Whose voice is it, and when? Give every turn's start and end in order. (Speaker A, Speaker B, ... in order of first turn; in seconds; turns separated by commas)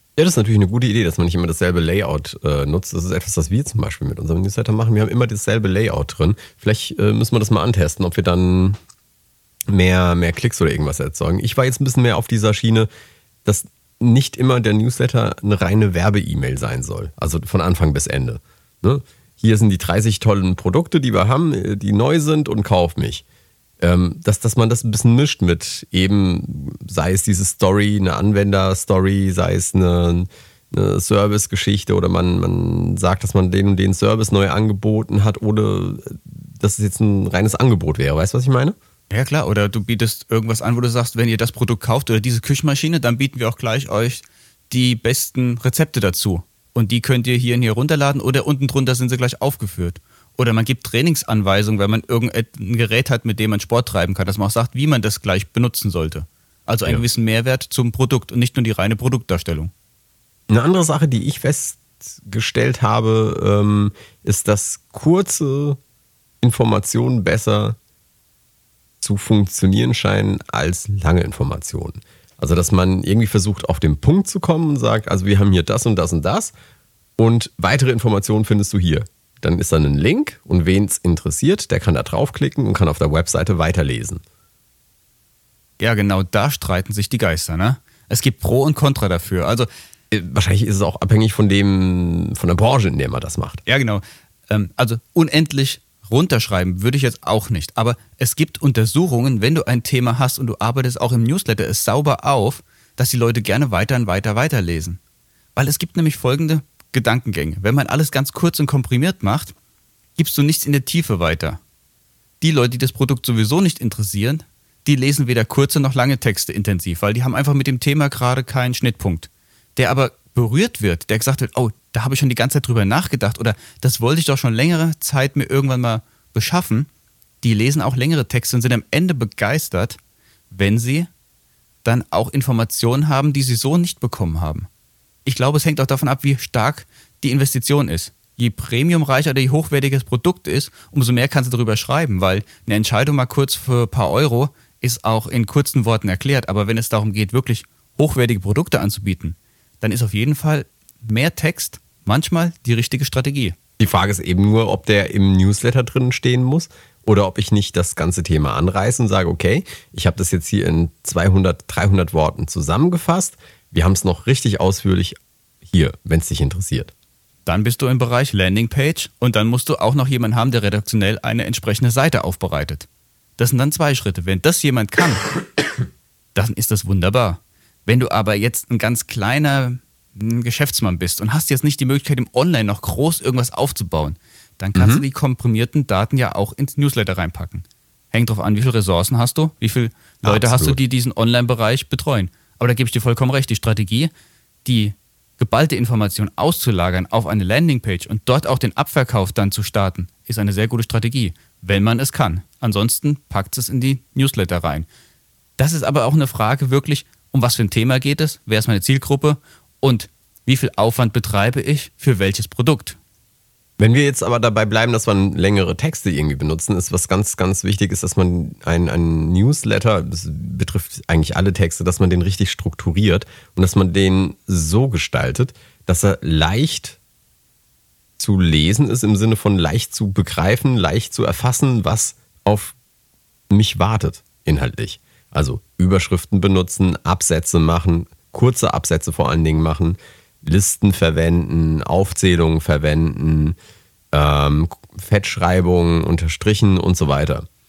Speaker A: 0.2-8.8, Speaker A: 9.7-12.9, Speaker A: 13.4-23.2, Speaker A: 23.8-38.8, Speaker B: 39.1-59.7, Speaker A: 60.5-65.8, Speaker A: 66.4-67.8, Speaker A: 69.0-76.5, Speaker A: 77.2-84.2, Speaker B: 85.8-89.7, Speaker A: 90.1-93.6, Speaker B: 93.7-105.0, Speaker B: 105.5-109.5, Speaker B: 110.2-111.6, Speaker B: 112.4-126.9, Speaker B: 127.4-130.0, Speaker B: 130.5-131.1, Speaker B: 131.8-134.7, Speaker B: 135.2-153.6, Speaker A: 153.8-166.9, Speaker B: 167.4-172.9, Speaker B: 173.4-175.3, Speaker B: 176.3-194.1, Speaker A: 184.8-185.0, Speaker A: 190.2-190.8, Speaker B: 194.6-204.9, Speaker B: 205.6-213.0, Speaker A: 213.8-227.0, Speaker A: 228.2-232.7, Speaker A: 233.5-243.6, Speaker A: 244.1-247.4